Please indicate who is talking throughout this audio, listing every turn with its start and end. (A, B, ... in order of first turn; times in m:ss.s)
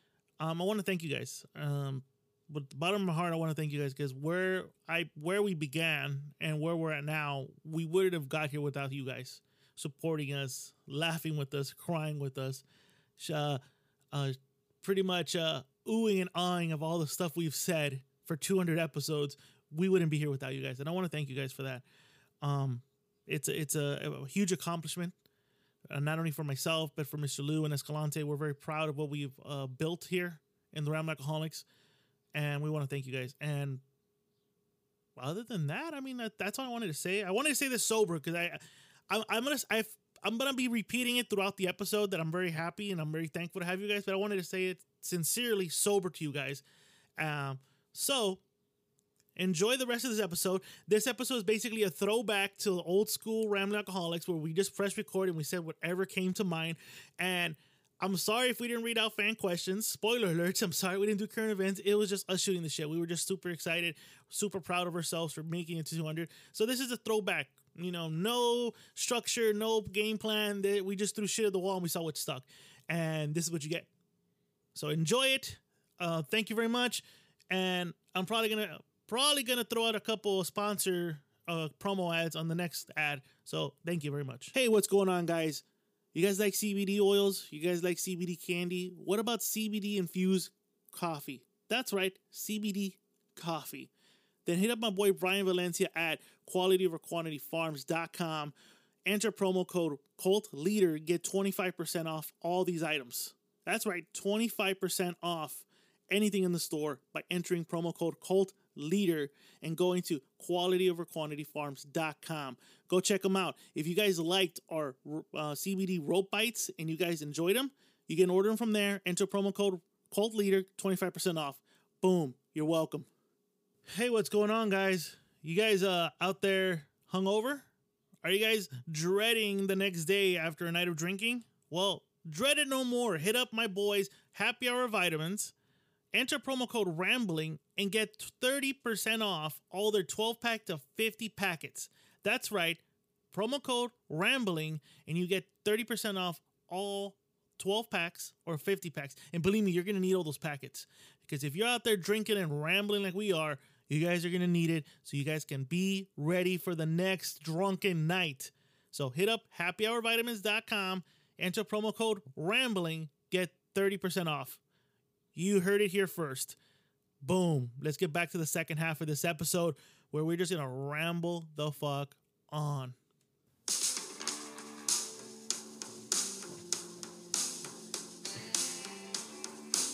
0:00.4-0:12.6 A
0:13.2-0:13.6 A
0:14.1-0:21.8 A
0:22.4-0:25.1 A
0:25.9-0:31.6 A
0:32.3-0:33.8 A
0:35.2-0:46.6 A
0:47.2-0:48.4 A
0:49.4-1:13.9 A
1:14.7-1:33.9 A
1:34.4-1:38.5 A
1:39.0-2:03.1 A
2:03.9-2:07.6 A
2:08.2-2:15.5 A
2:16.1-2:22.8 A
2:23.3-2:44.6 A
2:45.3-2:46.6 A
2:47.2-2:53.0 A